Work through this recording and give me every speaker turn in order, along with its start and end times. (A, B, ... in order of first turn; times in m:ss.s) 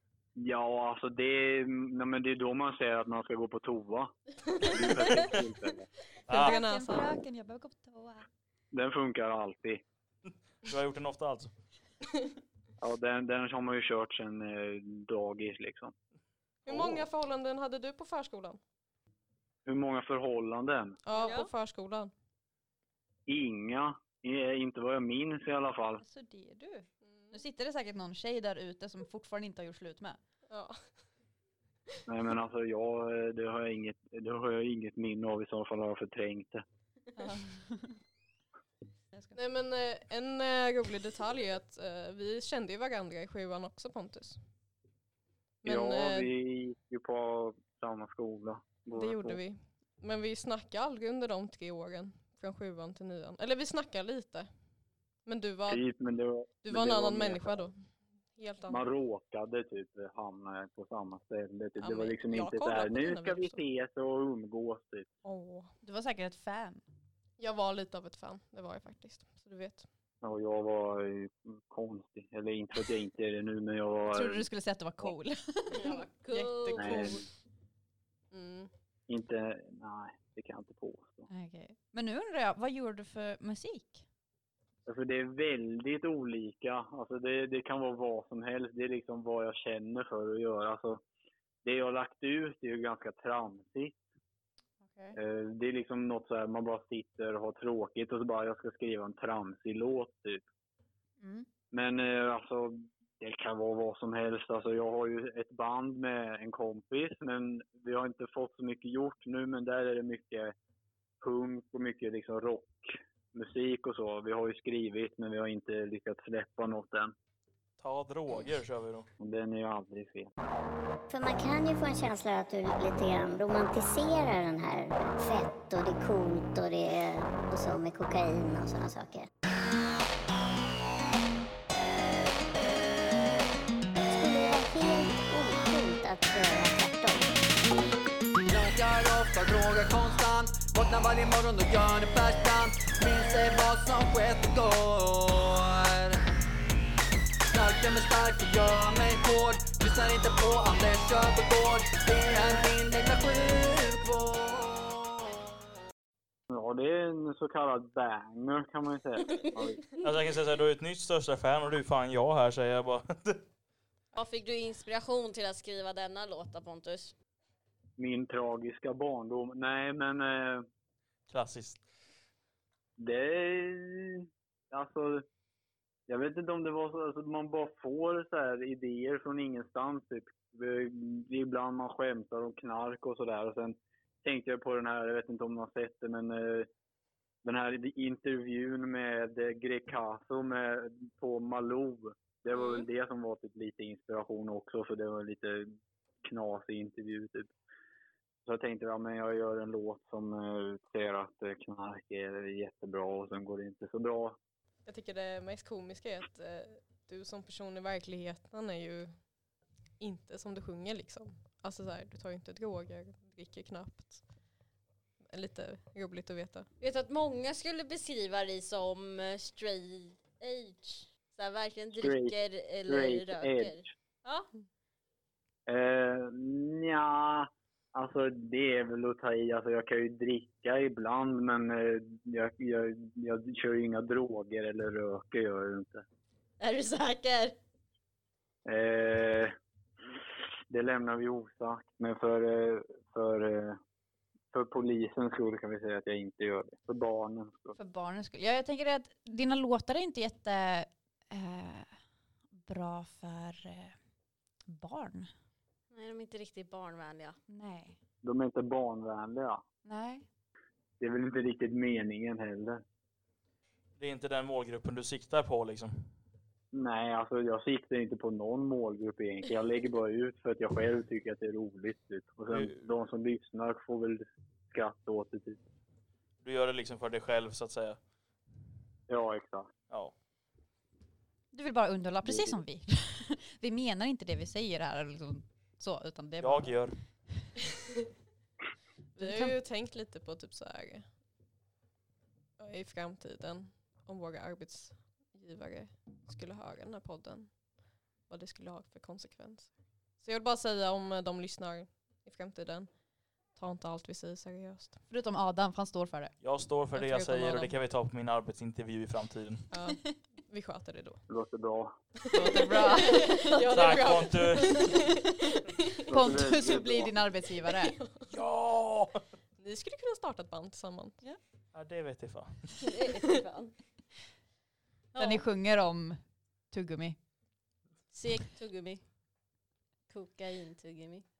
0:00.4-0:05.9 A
0:04.6-0:05.1 B
0:06.3-0:06.6 C
0:06.3-0:08.2 D
0:06.3-0:07.1 B
0:08.7-0:09.8 A
0:10.3-0:11.5 C
0:12.8-0:15.9 A
0:16.6-0:18.6 B
0:16.7-0:17.0 A
0:19.6-0:21.0 A
0:21.0-0:22.1 B
0:21.2-0:21.5 E
0:23.3-0:26.0 A
0:26.0-0:30.2 D
0:27.0-0:27.4 B
0:30.5-0:30.8 B
0:32.1-0:36.6 A
0:37.2-0:38.0 D
0:39.3-0:44.4 B
0:45.6-0:46.3 B
0:45.6-0:49.4 A
0:48.9-0:54.5 B
0:55.2-0:55.8 B
0:55.7-0:57.6 A
0:56.6-0:57.8 B
0:58.4-0:58.8 B
0:58.7-1:05.1 A
1:01.8-1:03.6 B
1:05.2-1:05.7 B
1:05.8-1:06.8 D
1:07.4-1:09.9 B
1:10.2-1:14.4 A
1:14.1-1:16.0 D
1:15.7-1:17.1 E
1:15.8-1:17.3 B
1:16.7-1:17.2 A
1:18.3-1:18.7 B
1:19.1-1:21.3 A
1:21.3-1:24.0 D
1:24.8-1:31.0 A
1:31.6-1:33.9 A
1:34.8-1:35.2 D
1:35.1-1:40.4 A
1:41.2-1:41.5 D
1:41.7-1:50.5 A
1:51.2-1:57.1 A
1:57.8-1:59.1 C
1:59.2-2:00.3 A
2:01.1-2:09.3 F
2:14.0-2:17.4 F
2:18.4-2:26.2 G
2:27.5-2:35.3 G
2:36.5-2:39.8 A
2:39.3-2:40.0 E
2:40.0-2:43.4 C
2:44.1-2:47.1 E
2:48.0-2:50.6 A
2:51.3-2:51.8 C
2:53.0-2:55.2 A
2:56.1-3:06.7 A
3:07.4-3:15.7 A
3:12.5-3:12.9 E
3:16.2-3:17.5 A
3:18.4-3:24.4 A
3:24.8-3:29.1 B
3:30.0-3:34.2 B
3:35.3-3:36.7 B
3:36.8-3:44.5 E
3:42.0-3:42.4 A
3:42.9-3:43.9 A
3:45.7-3:56.0 A
3:56.6-3:57.6 E
3:58.6-3:59.6 A
4:00.1-4:03.8 A
4:04.5-4:07.8 A
4:07.7-4:12.0 D
4:12.5-4:14.0 D
4:14.7-4:15.3 D
4:15.9-4:17.4 E
4:17.5-4:18.0 D
4:18.2-4:19.6 A
4:19.8-4:20.3 D
4:21.0-4:22.8 A
4:24.0-4:26.1 C
4:26.7-4:35.6 A
4:36.4-4:38.0 C
4:39.1-4:39.7 A
4:39.9-4:40.1 C
4:41.5-4:46.7 D
4:42.2-4:42.6 A
4:46.4-4:47.0 C
4:49.2-4:49.6 D
4:49.2-4:51.0 B
4:52.6-4:57.6 B
4:58.3-5:02.9 B
5:03.5-5:05.0 B
5:05.1-5:06.3 D
5:06.4-5:09.6 C
5:06.9-5:07.7 D
5:09.7-5:11.2 B
5:09.8-5:10.1 D
5:11.3-5:12.0 A
5:12.2-5:15.9 B
5:12.3-5:14.1 D
5:13.5-5:14.0 E
5:13.7-5:14.9 C
5:14.9-5:15.3 D
5:16.1-5:17.1 A
5:16.1-5:18.0 D
5:17.7-5:18.3 B
5:18.3-5:19.2 C
5:19.6-5:21.2 B
5:21.7-5:22.8 C
5:22.8-5:23.7 E
5:25.1-5:25.4 E
5:25.2-5:27.2 D
5:28.1-5:29.0 E
5:30.1-5:31.2 E